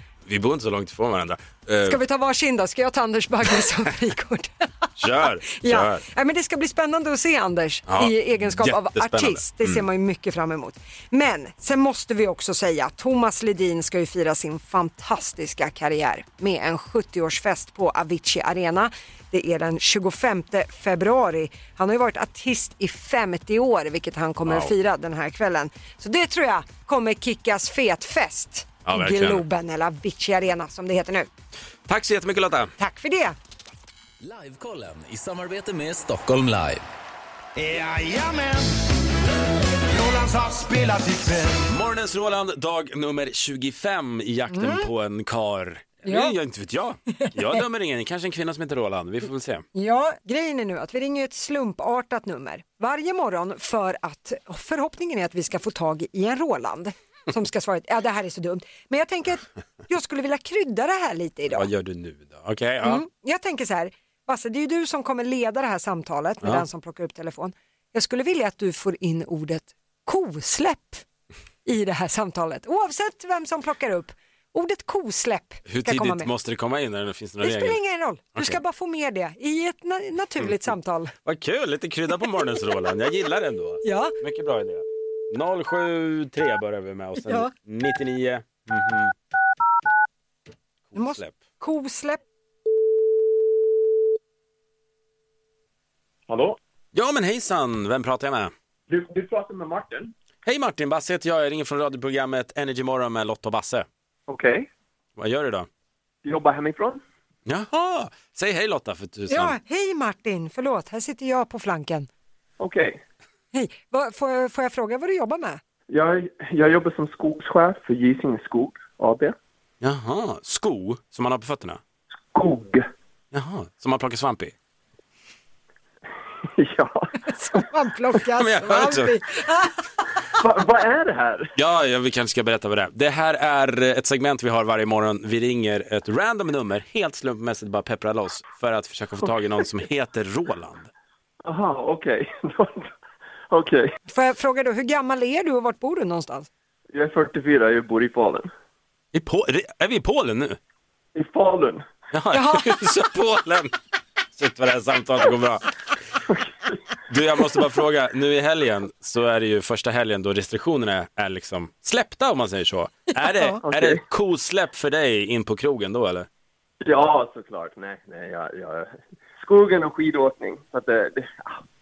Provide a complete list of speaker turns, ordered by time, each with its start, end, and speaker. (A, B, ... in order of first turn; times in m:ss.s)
0:00.3-0:02.0 A
0:01.8-0:04.9 B
0:05.0-0:06.0 A
0:05.4-0:31.3 B
0:07.9-0:09.8 A
0:28.9-0:29.4 A
0:31.9-0:32.7 A
0:32.8-0:33.4 B
0:34.2-0:36.8 C
0:37.6-0:38.7 D
0:39.8-0:41.6 D
0:41.7-0:49.6 A
0:44.5-0:44.9 B
0:46.1-0:46.4 B
0:47.2-0:47.6 B
0:49.8-1:01.7 B
1:01.5-1:03.0 A
1:02.8-1:11.0 B
1:11.7-1:16.3 B
1:15.7-1:17.8 A
1:17.4-1:21.1 B
1:21.2-1:29.1 A
1:23.8-1:24.2 B
1:27.2-1:27.5 B
1:30.9-1:31.4 A
1:31.0-1:32.2 B
1:36.3-1:36.6 E
1:36.9-1:38.5 A
1:38.9-1:40.1 E
1:40.4-1:43.9 A
1:44.3-1:44.7 E
1:45.2-1:45.7 A
1:46.2-1:47.0 E
1:47.5-1:49.6 A
1:49.3-1:52.1 B
1:52.6-1:53.0 E
1:53.5-1:55.6 B
1:55.9-1:59.4 E
1:59.8-2:01.8 A
2:02.3-2:02.9 E
2:03.3-2:04.5 A
2:06.6-2:07.6 E
2:07.3-2:09.8 B
2:08.4-2:09.1 A
2:10.4-2:11.5 E
2:11.6-2:20.9 A
2:21.4-2:22.9 E
2:23.5-2:23.9 E
2:24.1-2:26.5 B
2:26.9-2:28.5 E
2:29.1-2:30.6 A
2:31.2-2:31.9 E
2:32.1-2:33.7 A
2:32.3-2:32.7 B
2:34.4-2:35.7 A
2:37.1-2:46.3 A
2:43.2-2:43.6 B
2:43.7-2:44.0 E
2:46.8-2:51.6 E